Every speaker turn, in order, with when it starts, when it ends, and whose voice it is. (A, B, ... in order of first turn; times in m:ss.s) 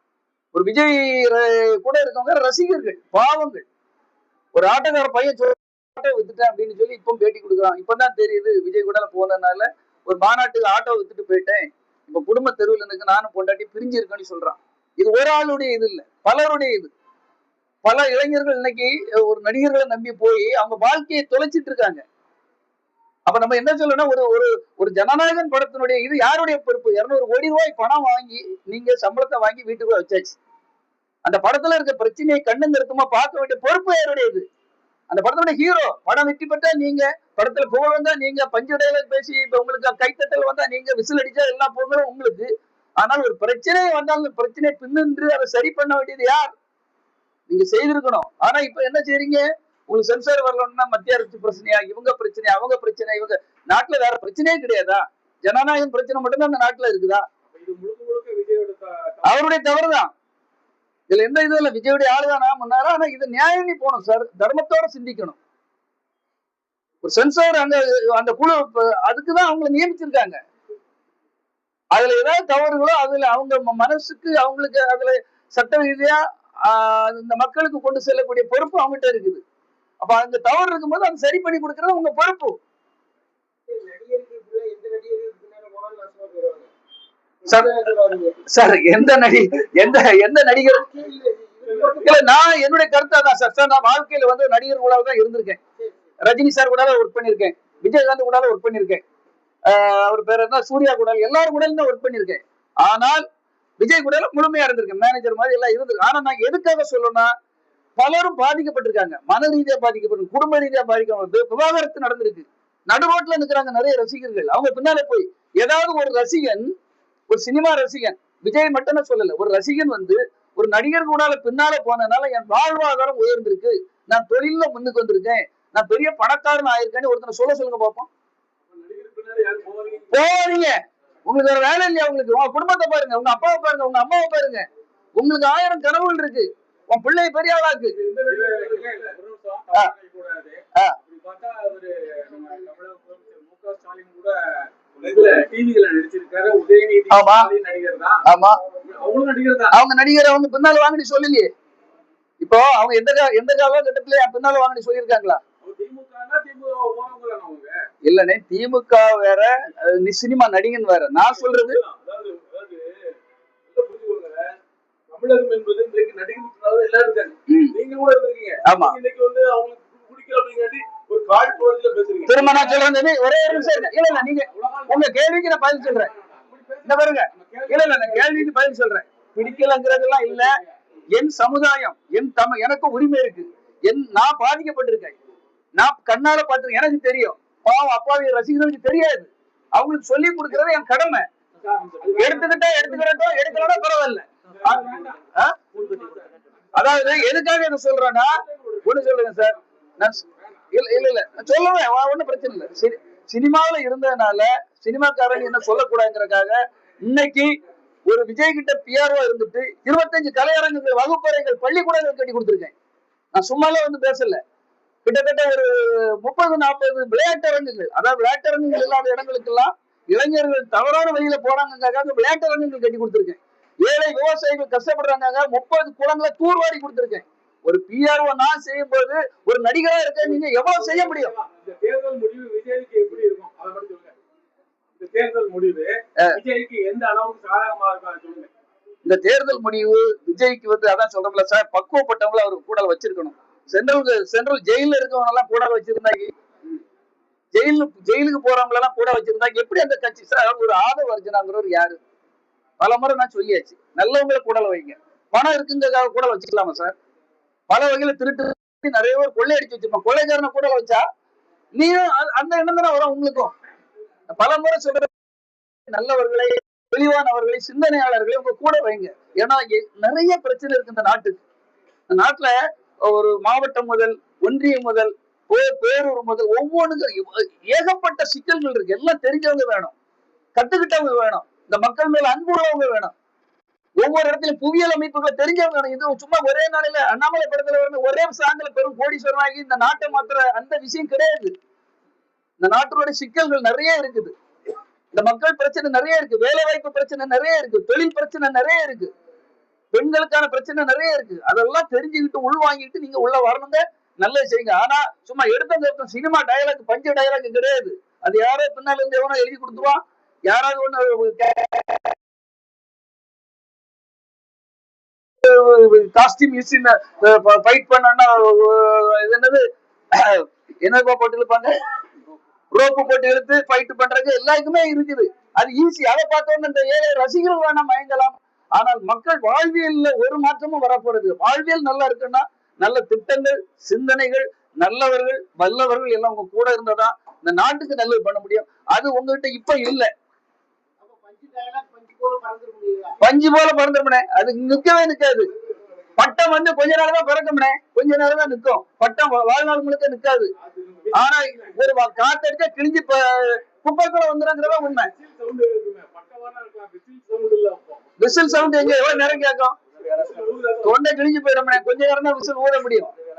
0:00.5-0:03.6 A
0:04.6-0:16.9 A
0:17.8-0:22.0 A
0:23.3-0:30.4 A
0:31.2-0:34.5 A
0:35.1-0:46.5 A
0:47.5-0:57.3 A
0:57.5-0:59.5 B
0:59.2-1:00.1 A
1:01.1-1:05.4 A
1:07.0-1:10.4 A
1:11.9-1:19.4 A
1:20.0-1:22.6 A
1:23.7-1:26.7 C
1:27.5-1:28.4 C
1:27.5-1:27.7 A
1:28.5-1:30.8 A
1:30.7-1:32.2 C
1:32.0-1:35.6 A
1:36.2-1:39.0 A
1:39.7-1:43.2 A
1:43.8-1:47.3 A
1:48.0-1:56.7 A
1:57.3-2:08.1 A
2:08.7-2:10.1 B
2:10.1-2:18.0 A
2:18.0-2:28.2 B
2:27.1-2:27.5 A
2:28.2-2:28.6 A
2:28.8-2:29.8 B
2:29.7-2:31.5 A
2:32.4-2:35.4 A
2:35.6-2:37.8 B
2:38.0-2:41.8 A
2:41.2-2:43.2 B
2:43.7-2:44.6 B
2:45.1-2:52.9 B
2:47.5-2:47.8 A
2:48.6-2:49.0 A
2:52.3-2:56.1 A
2:53.5-2:55.2 B
2:55.8-2:58.7 B
2:56.8-3:00.6 A
2:59.4-3:00.7 B
3:01.1-3:05.2 A
3:05.8-3:11.3 A
3:11.6-3:13.8 B
3:12.2-3:15.6 A
3:14.5-3:17.4 B
3:16.7-3:27.6 A
3:18.3-3:19.6 B
3:28.1-3:32.7 A
3:33.3-3:34.4 A
3:35.0-3:51.3 A
3:50.2-3:54.2 B
3:55.0-3:58.5 B
3:59.0-4:06.3 A
4:07.5-4:12.0 A
4:12.8-4:17.0 A
4:17.7-4:21.0 A
4:21.8-4:23.5 A
4:24.3-4:25.1 A
4:25.9-4:31.4 A
4:32.1-4:39.9 A
4:40.6-4:43.1 A
4:44.0-4:51.5 A
4:52.6-4:54.3 A
4:55.1-4:59.1 A
4:59.9-5:12.1 A
5:15.4-5:21.7 A
5:22.7-5:40.1 A
5:41.0-5:43.2 C
5:43.2-5:45.5 A
5:46.2-5:50.5 A
5:50.8-5:51.8 B
5:51.1-5:55.1 A
5:54.7-5:59.5 B
5:58.2-5:59.8 A
6:00.0-6:01.0 B
6:00.8-6:03.1 A